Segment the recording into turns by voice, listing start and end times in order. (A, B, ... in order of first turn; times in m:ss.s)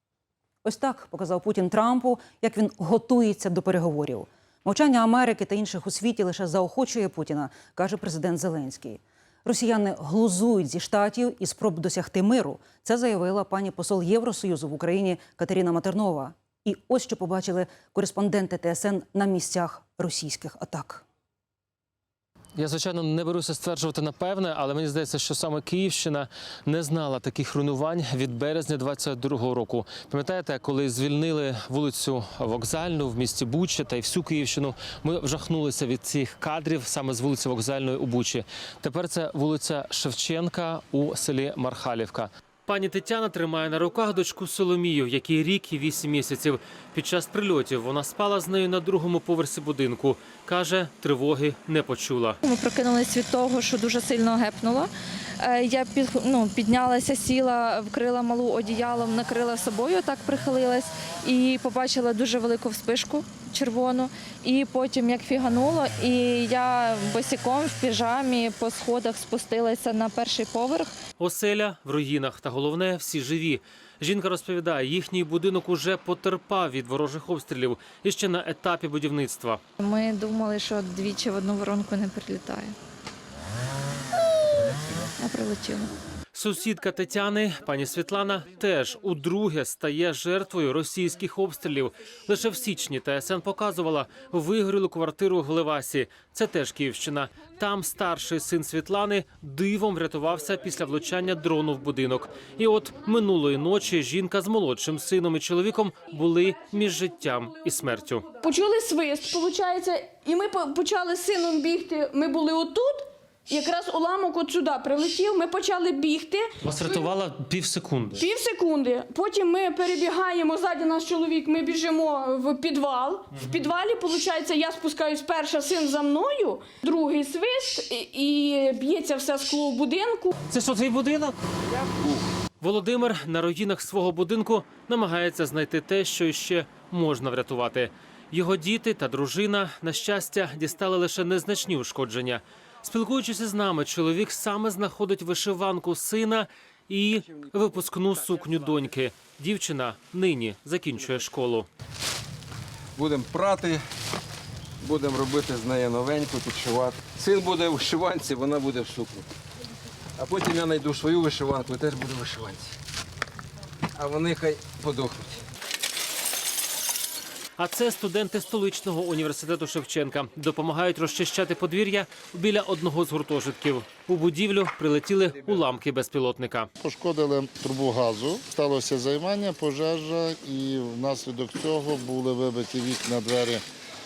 0:00.6-0:21.0 A
0:22.6-0:52.4 B
0:52.4-1:10.9 C
1:11.2-1:19.6 B
1:19.8-1:22.8 C
1:25.2-1:25.9 C
1:26.3-1:48.2 B
1:48.4-1:57.1 D
1:56.6-1:58.2 B
1:58.2-2:10.3 D
2:10.5-2:11.4 B
2:12.6-2:31.7 B
2:33.0-2:33.8 E
2:34.8-2:39.3 E
2:40.2-2:42.7 E
2:44.0-2:45.4 E
2:47.6-2:56.7 B
2:56.8-3:03.6 F